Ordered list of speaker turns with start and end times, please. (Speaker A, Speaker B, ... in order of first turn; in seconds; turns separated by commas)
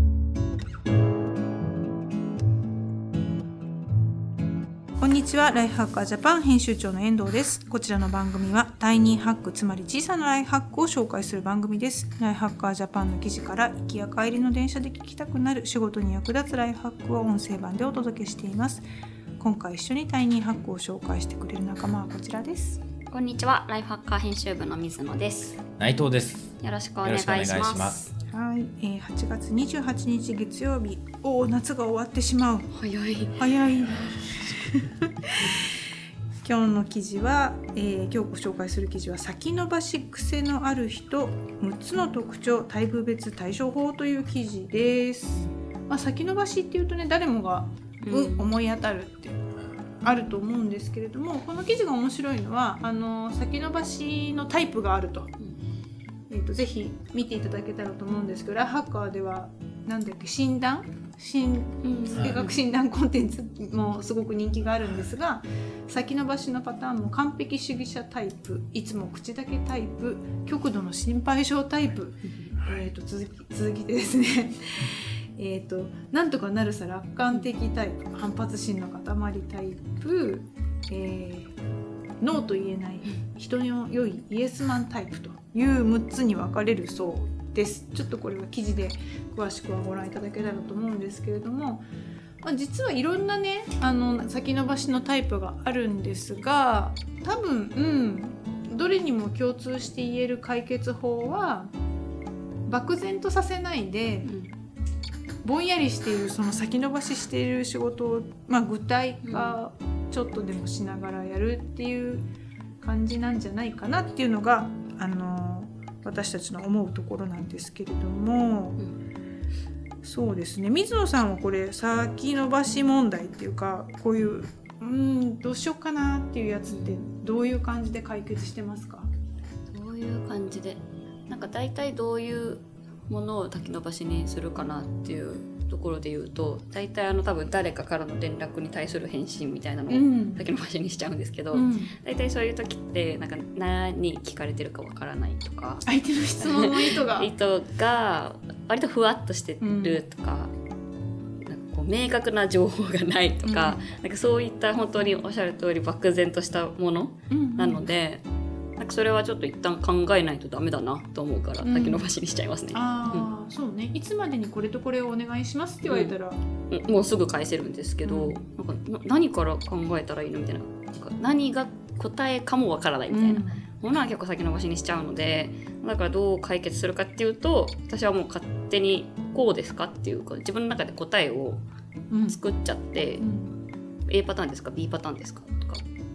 Speaker A: 5.0-18.9, Speaker A: 19.4-22.8, Speaker B: 23.1-25.6, Speaker C: 25.8-28.1, Speaker B: 26.6-28.1, Speaker A: 28.3-32.7, Speaker B: 32.7-33.4, Speaker A: 33.4-35.6, Speaker A: 36.4-49.4, Speaker B: 48.0-48.5, Speaker A: 50.0-55.3, Speaker A: 56.3-81.5, Speaker B: 61.8-62.6, Speaker C: 62.1-62.4, Speaker B: 72.2-72.6, Speaker A: 82.2-91.8, Speaker A: 92.4-101.7, Speaker A: 102.7-104.3, Speaker B: 104.2-104.5, Speaker A: 105.4-112.3, Speaker B: 109.2-109.6, Speaker A: 112.8-118.8, Speaker A: 120.0-129.1, Speaker B: 126.7-127.0, Speaker B: 129.7-145.8, Speaker A: 139.9-140.5, Speaker A: 141.5-141.9, Speaker A: 145.9-147.3, Speaker B: 146.4-150.5, Speaker A: 149.6-150.0, Speaker B: 151.4-158.2, Speaker A: 153.4-153.8, Speaker A: 157.3-157.8, Speaker B: 158.8-163.3, Speaker A: 161.6-162.1, Speaker A: 162.7-166.4, Speaker B: 165.8-166.2, Speaker B: 166.7-181.6, Speaker A: 168.1-168.4, Speaker A: 173.1-173.6, Speaker A: 182.1-182.4, Speaker B: 182.2-183.2, Speaker A: 183.2-183.5, Speaker B: 184.1-185.8